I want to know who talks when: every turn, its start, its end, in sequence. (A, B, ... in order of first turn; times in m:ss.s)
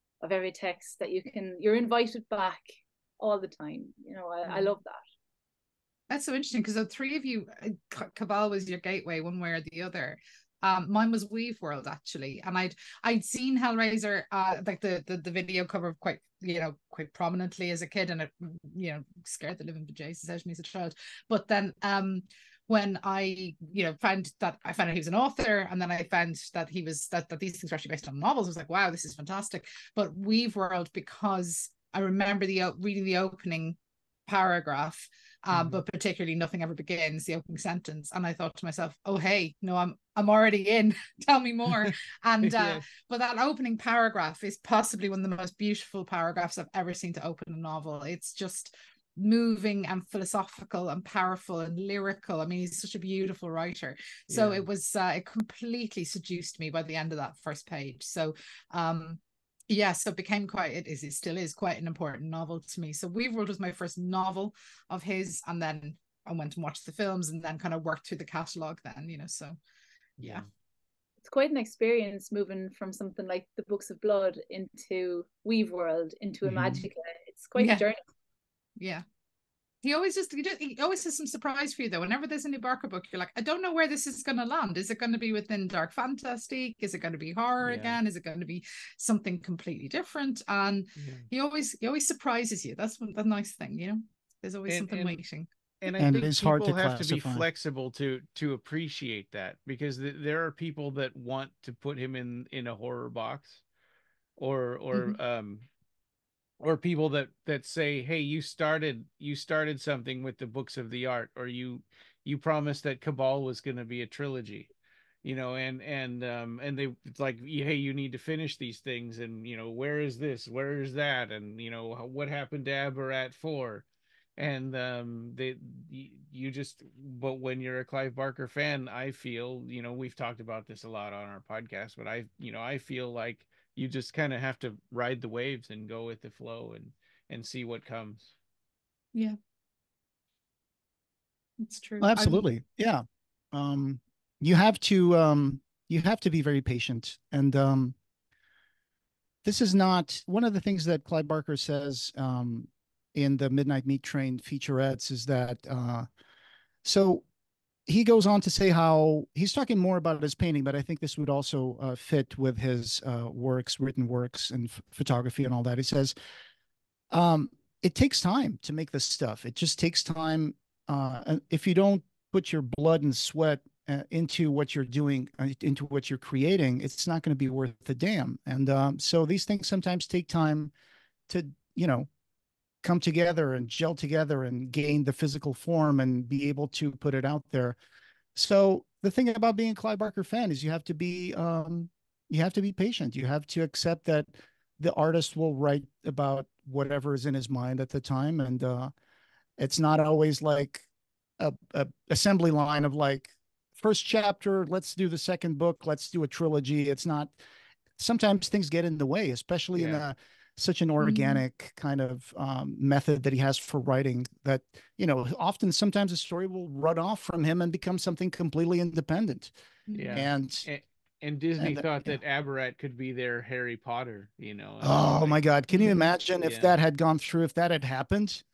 0:00.2-0:02.6 A
0:03.2-0:05.0 A
0:06.1-1:09.6 B
0:35.5-0:35.8 C
0:41.7-0:42.8 C
0:54.3-0:54.6 C
1:10.2-1:10.4 B
1:11.2-1:18.0 A
1:16.6-1:16.8 D
1:17.6-1:17.8 B
1:18.8-1:19.0 B
1:19.8-1:35.5 B
1:27.6-1:28.0 C
1:31.0-1:31.3 C
1:34.7-1:35.2 C
1:35.8-1:43.6 C
1:36.0-1:37.4 D
1:44.4-1:45.7 C
1:46.6-1:54.7 C
1:55.2-2:03.8 C
2:04.4-2:18.3 C
2:21.6-2:22.4 B
2:22.0-2:27.9 D
2:29.4-2:36.1 D
2:36.8-2:37.2 D
2:37.9-2:46.1 D
2:47.1-3:00.7 D
3:01.3-3:02.1 D
3:02.8-3:07.8 D
3:08.3-3:18.9 D
3:19.6-3:20.8 D
3:21.4-3:27.3 D
3:28.0-3:39.5 D
3:29.7-3:30.0 C
3:31.0-3:31.4 B
3:39.9-3:40.3 B
3:39.9-3:45.4 C
3:40.1-3:40.6 D
3:41.6-3:42.2 D
3:44.8-3:48.4 D
3:45.7-3:46.0 B
3:46.4-3:46.7 C